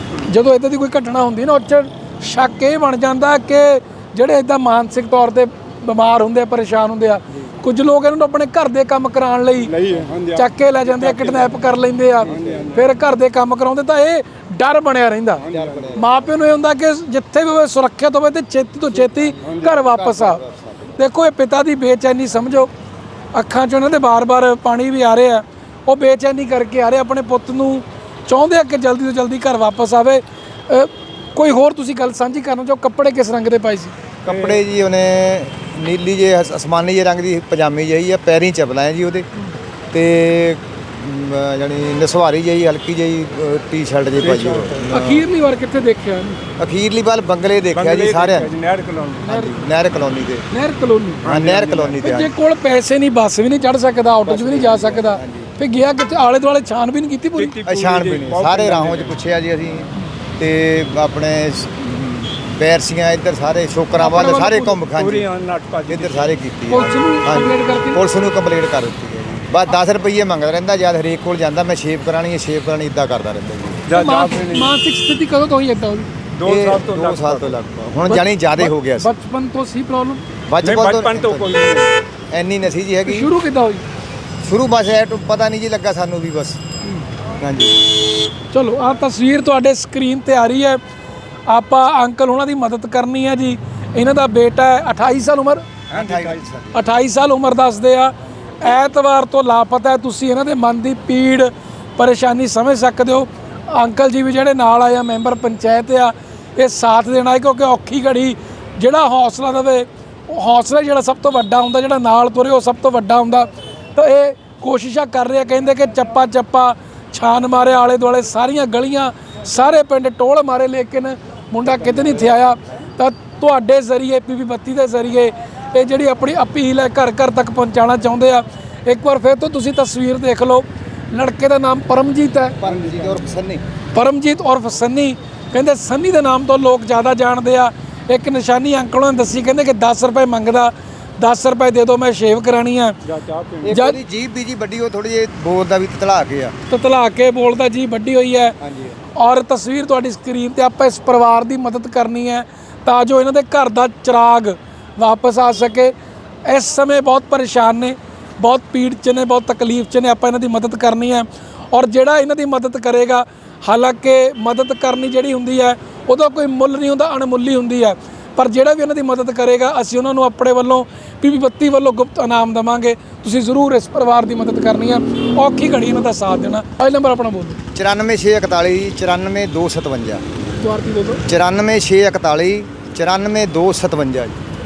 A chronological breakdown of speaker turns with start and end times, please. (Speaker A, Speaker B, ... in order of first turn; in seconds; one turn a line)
Speaker A: 0.2-9.7
Speaker B: 9.7-11.5
Speaker A: 10.3-15.4
Speaker B: 12.2-12.9
Speaker C: 12.2-12.7
Speaker B: 15.4-16.0
Speaker C: 15.5-16.2
Speaker A: 15.9-20.4
Speaker C: 18.9-21.0
Speaker B: 19.3-19.7
Speaker A: 20.9-22.7
Speaker A: 23.3-33.9
Speaker C: 34.2-39.3
Speaker B: 34.3-34.6
Speaker C: 39.9-45.2
Speaker B: 44.2-44.9
Speaker A: 44.9-46.4
Speaker C: 46.6-48.5
Speaker B: 47.7-49.3
Speaker C: 49.2-50.5
Speaker A: 49.3-49.5
Speaker A: 50.5-51.2
Speaker B: 51.2-52.0
Speaker C: 51.2-52.3
Speaker A: 52.0-57.5
Speaker C: 54.2-55.5
Speaker B: 57.4-59.2
Speaker C: 57.6-65.3
Speaker A: 64.0-64.8
Speaker B: 64.9-66.4
Speaker C: 65.9-73.8
Speaker A: 66.7-68.0
Speaker B: 73.9-74.7
Speaker A: 73.9-76.1
Speaker B: 76.4-77.5
Speaker C: 76.4-79.1
Speaker A: 78.1-80.3
Speaker C: 80.5-81.5
Speaker B: 80.6-81.9
Speaker C: 82.3-83.3
Speaker A: 83.0-83.8
Speaker C: 84.4-86.6
Speaker C: 87.4-87.9
Speaker A: 88.5-90.8
Speaker A: 91.5-95.6
Speaker B: 95.9-96.4
Speaker C: 95.9-96.8
Speaker A: 96.7-132.6
Speaker B: 121.8-122.1
Speaker C: 132.6-133.6
Speaker B: 132.6-133.2
Speaker A: 133.9-143.0
Speaker B: 143.0-143.8
Speaker C: 143.6-146.5
Speaker A: 143.7-144.0
Speaker A: 146.7-148.6
Speaker C: 148.6-149.0
Speaker A: 149.1-155.9
Speaker A: 156.4-177.6
Speaker C: 177.7-180.2
Speaker A: 180.6-181.2
Speaker C: 181.2-184.4